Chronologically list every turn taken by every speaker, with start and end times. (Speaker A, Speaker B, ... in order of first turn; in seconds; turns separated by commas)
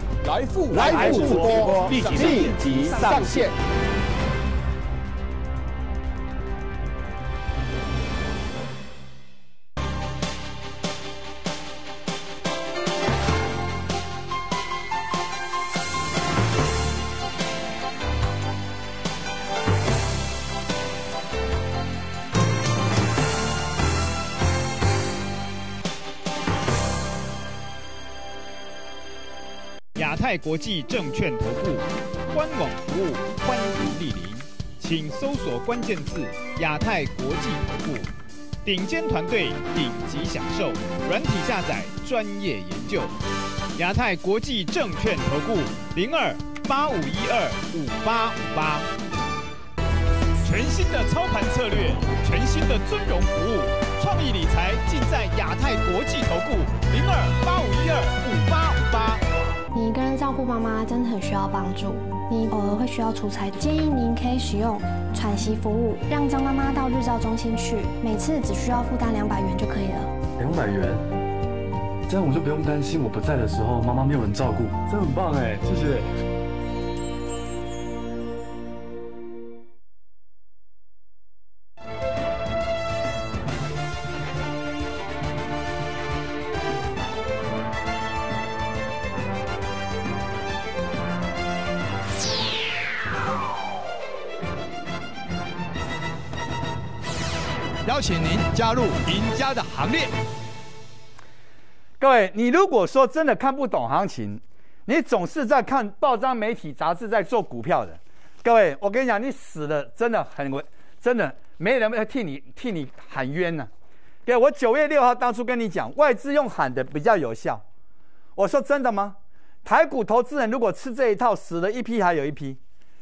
Speaker A: 0.2-3.6, Speaker B: 0.7-3.5, Speaker C: 2.1-2.4, Speaker C: 29.9-38.1, Speaker C: 38.6-43.1, Speaker C: 43.8-48.9, Speaker C: 50.4-59.2, Speaker D: 59.7-70.2, Speaker E: 70.4-71.1, Speaker E: 72.1-76.1, Speaker C: 97.8-100.1, Speaker B: 102.0-113.7, Speaker B: 114.3-117.6, Speaker B: 118.4-122.6